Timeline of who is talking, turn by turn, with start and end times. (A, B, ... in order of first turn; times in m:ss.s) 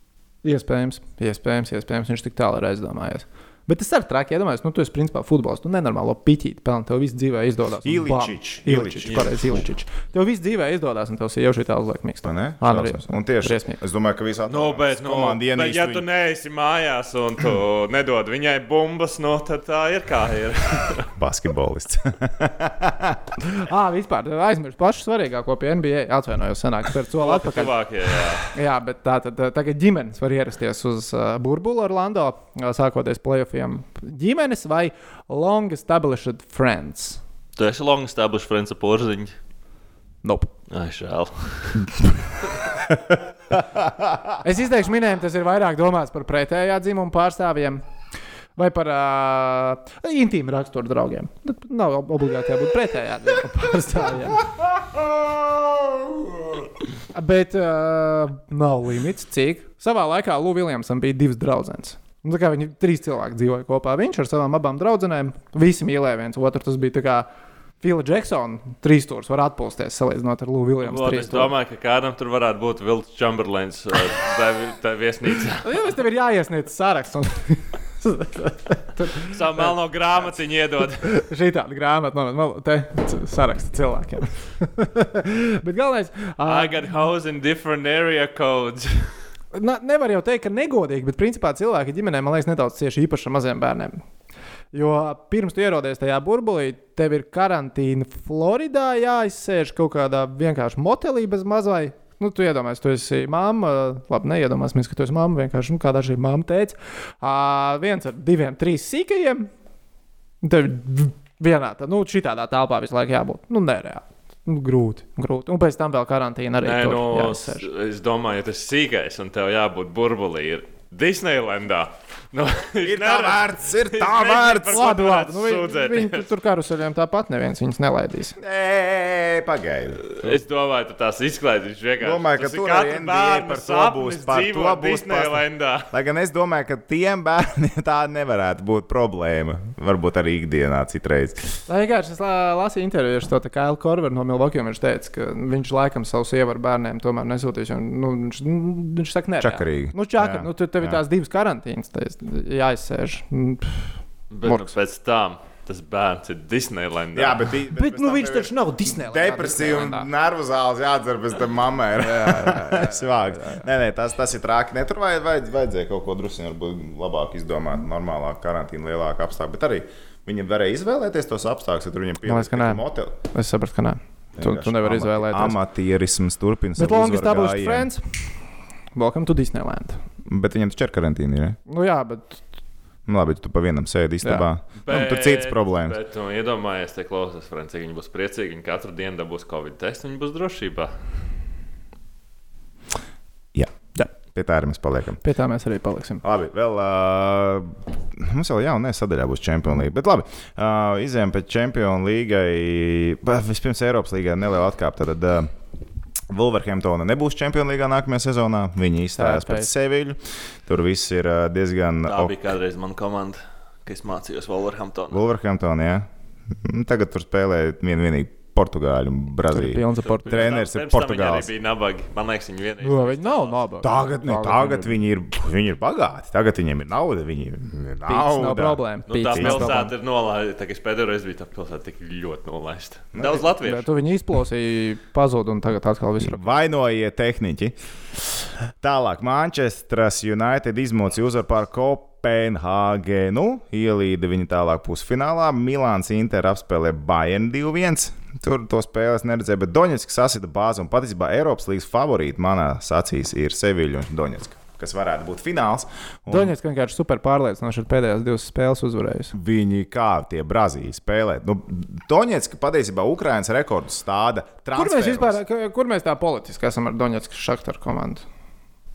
0:00.4-0:13.8 A
0:07.8-0:09.3 B
0:12.2-0:16.0 B
0:14.5-0:21.1 C
0:21.2-0:23.4 B
0:23.5-0:27.7 A
0:27.2-0:28.5 C
0:28.4-0:37.2 A
0:37.6-0:39.3 C
0:40.2-0:40.5 A
0:40.7-0:42.0 C
0:42.9-0:43.2 B
0:43.8-0:44.2 B
0:44.4-0:47.8 A
0:48.6-0:54.5 A
0:54.6-0:56.6 B
0:57.1-1:07.3 A
1:07.8-1:11.5 A
1:10.8-1:15.7 C
1:15.6-1:19.8 A
1:19.2-1:21.1 C
1:21.0-1:26.8 A
1:26.4-1:29.2 C
1:29.5-1:34.0 A
1:34.7-1:49.5 A
1:50.4-1:57.7 A
1:56.6-2:06.3 C
2:02.8-2:04.8 B
2:04.6-2:08.4 A
2:08.4-2:10.4 B
2:10.1-2:15.9 C
2:12.0-2:21.5 B
2:21.7-2:34.7 A
2:29.4-2:31.0 B
2:34.3-2:37.5 C
2:37.1-2:53.1 B
2:37.7-2:40.1 A
2:42.0-2:43.6 A
2:52.2-2:55.6 A
2:54.4-2:57.9 B
2:56.8-2:58.4 A
2:58.9-3:00.0 A
3:00.2-3:01.6 B
3:01.7-3:02.4 A
3:03.1-3:06.0 B
3:04.8-3:10.9 C
3:14.2-3:15.2 B
3:15.2-3:16.2 A
3:16.2-3:25.5 B
3:26.3-3:32.3 B
3:29.2-3:29.7 A
3:32.1-3:35.2 C
3:35.1-3:41.5 B
3:39.5-3:40.5 A
3:40.0-3:43.6 C
3:42.8-3:44.9 A
3:43.8-3:49.7 B
3:48.1-3:49.9 A
3:49.1-3:53.8 C
3:53.1-3:53.4 B
3:53.6-3:56.6 A
3:56.2-4:16.5 B
4:16.3-4:19.3 A
4:19.3-4:25.4 B
4:24.7-4:28.2 A